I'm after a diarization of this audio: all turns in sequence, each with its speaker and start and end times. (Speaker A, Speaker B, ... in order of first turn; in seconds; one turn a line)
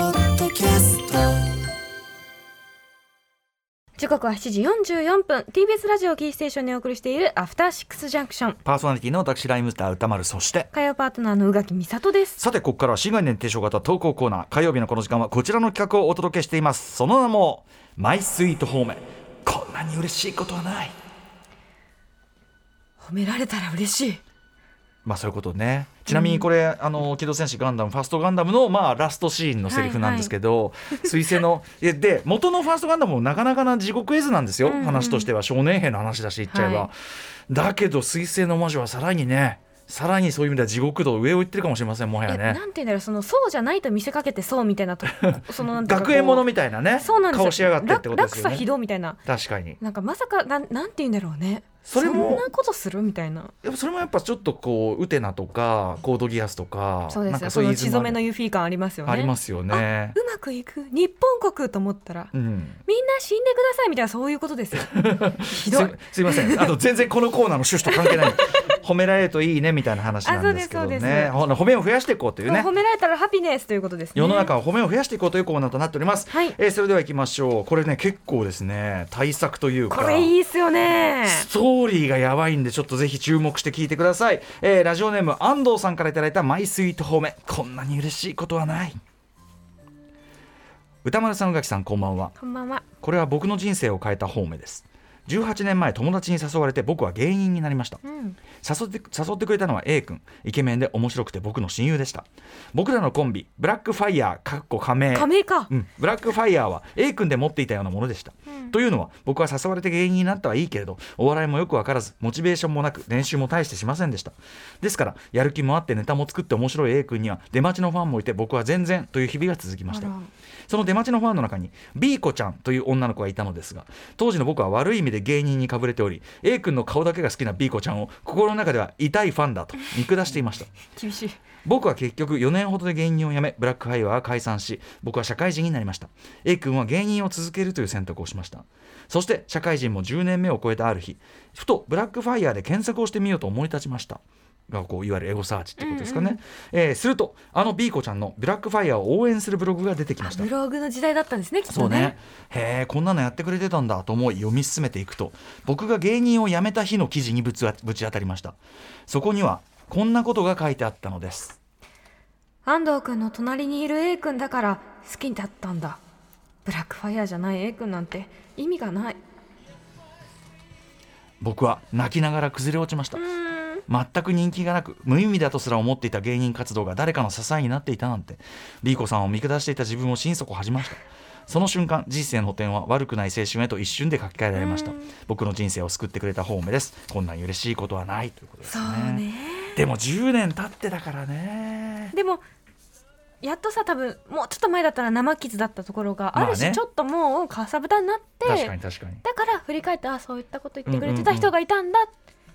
Speaker A: 0.5-1.1
Speaker A: 4.0-8.6
Speaker B: 8.7-10.7
Speaker A: 10.7-12.4
Speaker B: 12.4-21.0
Speaker A: 23.0-24.2
Speaker B: 25.1-36.9
Speaker A: 26.1-26.5
Speaker A: 29.7-30.3
Speaker A: 34.6-35.3
Speaker A: 36.5-36.9
Speaker B: 37.5-42.6
Speaker A: 42.3-49.2
Speaker B: 45.2-48.7
Speaker B: 49.3-49.8
Speaker A: 49.8-53.5
Speaker B: 51.9-52.5
Speaker B: 53.6-58.2
Speaker A: 57.1-62.3
Speaker B: 59.0-60.2
Speaker B: 62.3-62.8
Speaker A: 62.9-66.7
Speaker B: 64.8-72.7
Speaker A: 67.9-68.5
Speaker A: 70.2-71.3
Speaker A: 72.5-74.5
Speaker B: 74.2-80.3
Speaker A: 76.3-76.6
Speaker A: 79.9-81.5
Speaker B: 81.3-89.0
Speaker B: 91.0-92.3
Speaker A: 92.4-92.8
Speaker B: 93.0-98.0
Speaker A: 98.0-98.4
Speaker B: 98.6-120.1
Speaker A: 105.1-105.7
Speaker A: 108.5-108.7
Speaker A: 119.9-120.3
Speaker B: 120.7-130.7
Speaker A: 130.9-131.4
Speaker B: 131.7-150.5
Speaker A: 145.8-146.4
Speaker A: 150.2-152.2
Speaker B: 151.7-158.6
Speaker B: 159.1-161.6
Speaker A: 162.7-166.0
Speaker A: 166.7-169.2
Speaker B: 171.4-173.2
Speaker A: 173.2-173.8
Speaker B: 173.9-189.2
Speaker A: 184.6-185.1
Speaker A: 188.6-189.8
Speaker B: 189.8-192.2
Speaker A: 192.1-192.4
Speaker A: 193.4-202.1
Speaker B: 196.3-196.8
Speaker B: 198.4-199.2
Speaker B: 200.9-201.5